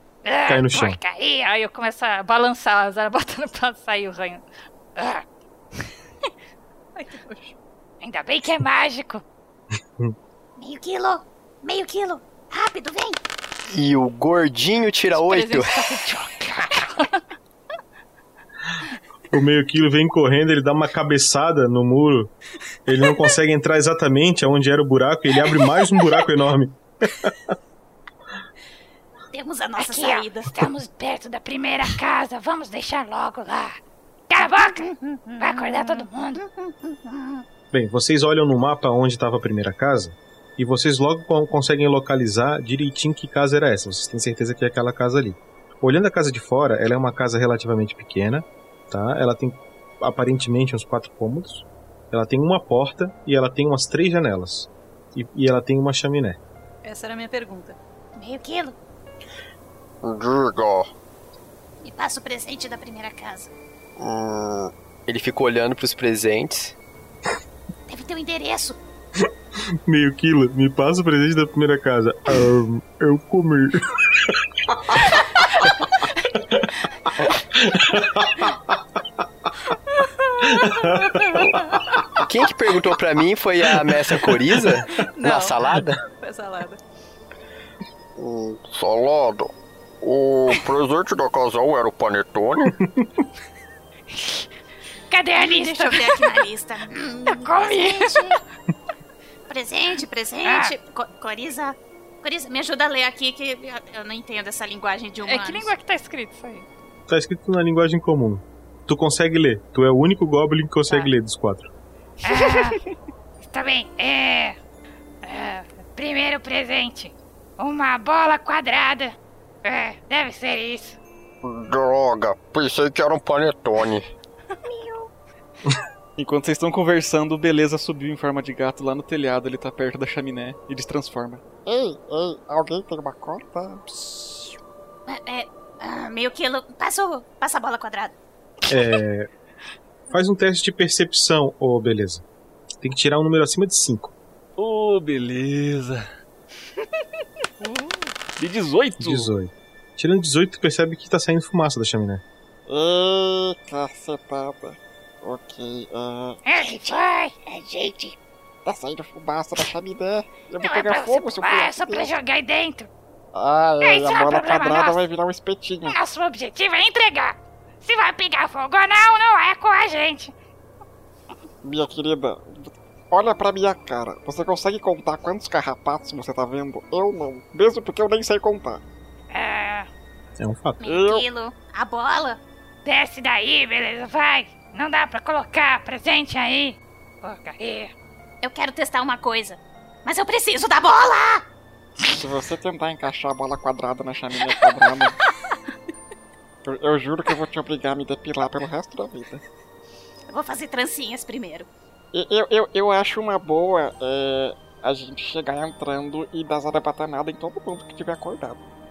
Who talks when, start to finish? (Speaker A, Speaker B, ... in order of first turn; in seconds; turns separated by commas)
Speaker A: 0.2-1.5, Speaker B: 0.5-1.0, Speaker C: 1.5-4.4, Speaker A: 5.0-5.2, Speaker D: 7.0-7.5, Speaker A: 8.0-9.2, Speaker A: 10.8-13.1, Speaker E: 13.7-15.8, Speaker C: 15.2-16.8, Speaker A: 15.9-16.9, Speaker B: 19.3-22.3, Speaker B: 22.9-27.3, Speaker F: 29.3-30.5, Speaker A: 29.8-33.8, Speaker A: 34.3-34.8, Speaker F: 34.6-37.1, Speaker A: 35.4-36.4, Speaker B: 37.7-56.4, Speaker D: 56.8-57.8, Speaker F: 58.2-58.8, Speaker G: 60.0-60.9, Speaker F: 61.8-63.5, Speaker G: 64.0-64.7, Speaker E: 65.1-66.7, Speaker F: 67.9-68.8, Speaker B: 69.8-73.8, Speaker B: 80.6-81.4, Speaker E: 82.2-86.0, Speaker D: 85.0-85.6, Speaker D: 86.1-86.8, Speaker G: 88.2-89.5, Speaker G: 90.0-92.7, Speaker A: 94.1-94.4, Speaker A: 95.1-96.2, Speaker F: 95.4-98.4, Speaker A: 97.3-98.4, Speaker F: 99.5-105.7, Speaker A: 100.4-100.7, Speaker C: 105.2-106.7, Speaker B: 107.1-111.7, Speaker A: 112.2-112.8, Speaker A: 113.4-114.5, Speaker A: 115.2-121.0, Speaker G: 121.4-124.0, Speaker H: 126.2-131.4, Speaker I: 131.7-134.6, Speaker F: 135.1-138.1, Speaker B: 138.7-139.3, Speaker B: 140.1-142.2, Speaker B: 142.8-144.1, Speaker H: 144.6-146.1, Speaker H: 148.4-149.3, Speaker B: 149.0-152.2, Speaker I: 152.7-156.4, Speaker A: 156.4-157.4, Speaker I: 157.7-158.1, Speaker I: 158.6-162.1, Speaker A: 160.6-162.9, Speaker I: 163.3-166.0, Speaker A: 163.8-165.0, Speaker A: 165.9-170.3, Speaker I: 171.6-178.8, Speaker A: 179.3-179.9, Speaker B: 180.4-180.9, Speaker F: 180.8-182.4, Speaker I: 180.9-181.2, Speaker A: 182.8-187.9, Speaker F: 188.4-191.4, Speaker I: 192.1-195.2, Speaker I: 196.6-199.4, Speaker F: 200.3-201.7, Speaker I: 202.1-208.6